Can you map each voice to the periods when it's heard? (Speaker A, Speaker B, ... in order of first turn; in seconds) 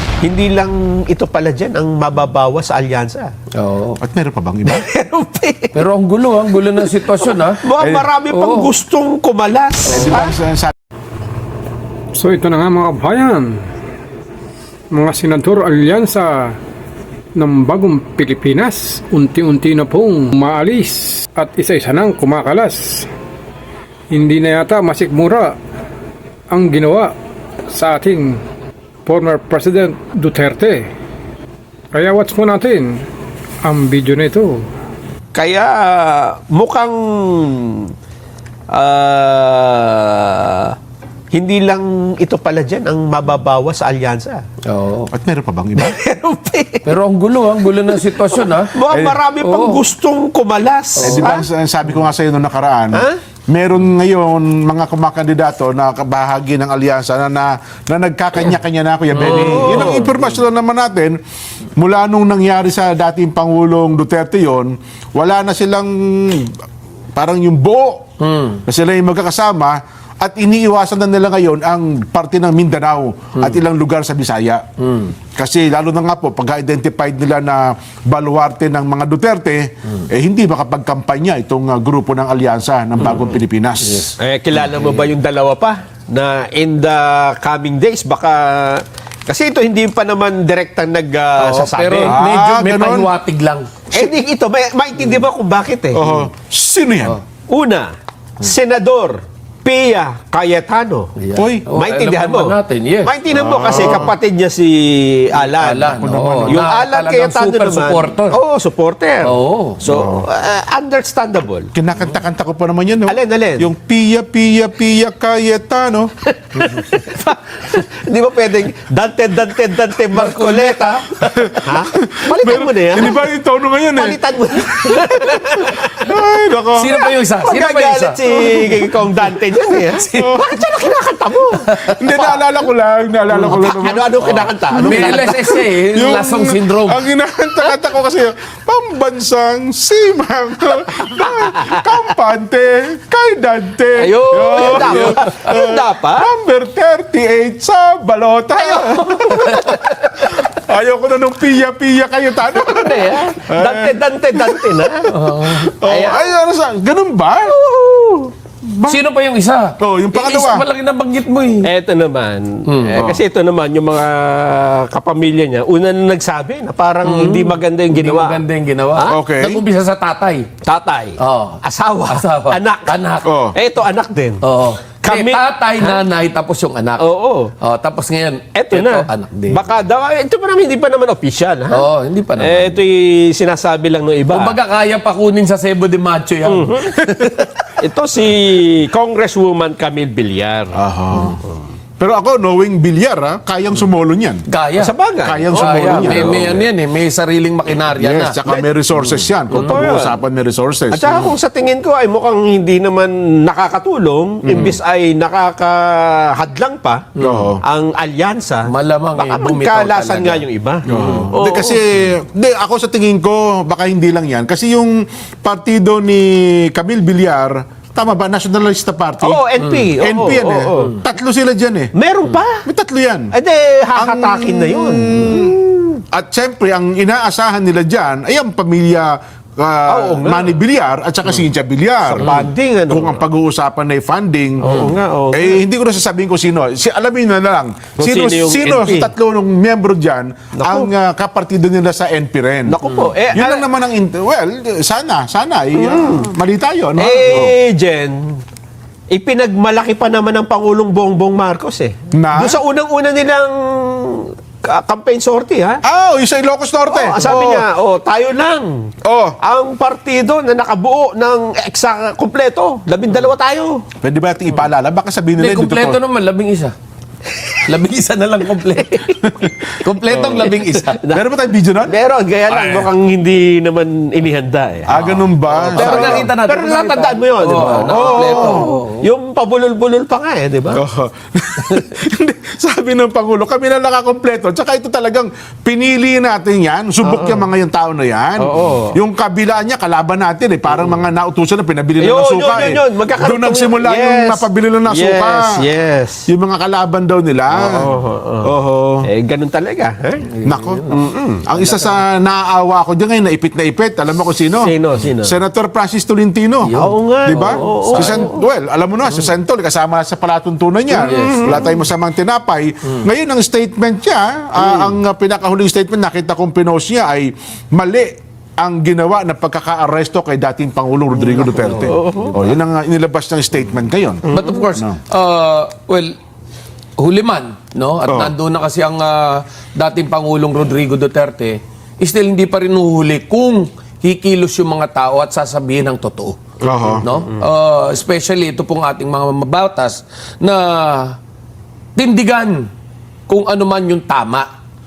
Speaker A: 0.2-3.3, 4.7-5.8, 7.6-10.3, 35.3-37.9, 38.7-40.8, 41.3-44.4, 45.8-46.9, 48.4-51.5, 59.3-60.1, 84.2-92.2, 93.9-96.0, 97.5-101.1, 101.8-111.7, 113.1-113.7, 116.3-123.2, 124.0-126.1, 127.0-132.4, 133.3-135.6, 141.3-141.7, 144.1-146.3, 148.6-150.0, 152.5-155.1, 155.8-156.3, 157.4-158.3, 161.6-168.4, 170.7-173.0, 173.5-174.4, 175.0-176.0, 177.0-177.5, 178.6-181.8, 182.4-184.6, 186.5-186.9, 187.8-191.6, 194.8-196.6, 199.5-200.2, 200.9-207.1, 207.6-211.8, 219.2-220.9, 221.9-222.7, 223.3-226.0, 229.9-230.5, 232.1-233.2, 234.6-235.6, 238.0-239.1, 240.6-240.9, 242.7-243.7, 245.8-246.3, 247.0-248.4, 249.1-255.8, 256.9-258.9, 259.4-263.8, 268.8-269.2, 270.8-271.2, 271.9-275.1, 275.7-280.8, 287.0-287.4, 288.4-288.9, 292.0-296.2, 297.5-298.5, 299.0-300.3, 300.9-301.4, 304.6-305.3, 306.8-308.4, 311.0-311.6, 321.5-322.5, 324.3-324.6, 337.1-337.4
Speaker B: 3.6-4.0, 5.7-7.6, 8.3-8.7, 44.7-45.1, 46.8-48.8, 49.4-49.9, 51.0-51.4, 59.1-60.2, 68.2-68.6, 73.4-73.6, 74.8-75.1, 83.8-84.1, 91.4-94.1, 101.2-103.1, 103.7-104.0, 105.6-108.4, 109.2-109.8, 116.6-117.2, 120.1-121.6, 126.7-128.9, 129.7-130.5, 131.7-132.0, 134.8-137.0, 144.1-145.4, 155.1-155.8, 158.9-161.7, 162.7-163.1, 167.0-170.5, 171.2-173.3, 174.4-177.1, 177.6-179.7, 181.7-182.8, 184.3-187.7, 194.5-194.9, 195.5-198.4, 199.2-199.8, 207.2-207.6, 208.7-211.3, 219.6-219.9, 242.8-243.1, 265.4-266.7, 267.5-269.2, 269.8-271.0, 274.9-279.1, 300.3-301.0, 301.6-302.0, 306.6-308.3, 311.0-311.7, 321.4-322.3, 324.3-326.1, 327.0-336.4, 337.0-341.2, 342.0-342.7, 343.3-344.5
Speaker C: 4.0-4.9, 7.8-8.1, 9.9-10.7, 45.1-46.0, 48.9-49.2, 51.0-61.2, 61.8-66.6, 67.2-68.1, 68.7-74.7, 75.3-84.1, 92.0-93.1, 95.9-97.2, 101.4-101.7, 103.3-104.1, 106.0-106.7, 109.9-110.3, 111.7-116.1, 121.3-127.0, 130.2-130.6, 131.8-157.6, 158.6-159.0, 159.8-160.7, 169.1-169.6, 173.2-173.6, 190.7-191.4, 192.0-194.4, 195.2-196.7, 197.9-201.3, 204.4-204.8, 207.2-207.6, 210.9-219.4, 219.9-221.9, 222.7-223.3, 224.0-225.6, 226.1-242.8, 243.3-247.5, 252.1-252.6, 255.8-257.6, 259.0-259.4, 264.0-266.0, 269.2-270.5, 271.1-271.9, 272.5-272.9, 274.9-276.3, 277.8-278.7, 280.7-295.7, 296.3-299.1, 300.4-300.9, 301.5-325.0, 328.1-328.4, 336.6-337.1
Speaker D: 12.2-13.6, 14.9-16.6, 17.4-23.1, 24.1-25.6, 26.5-27.1, 27.7-28.4, 29.1-30.9, 31.9-33.0, 33.6-34.6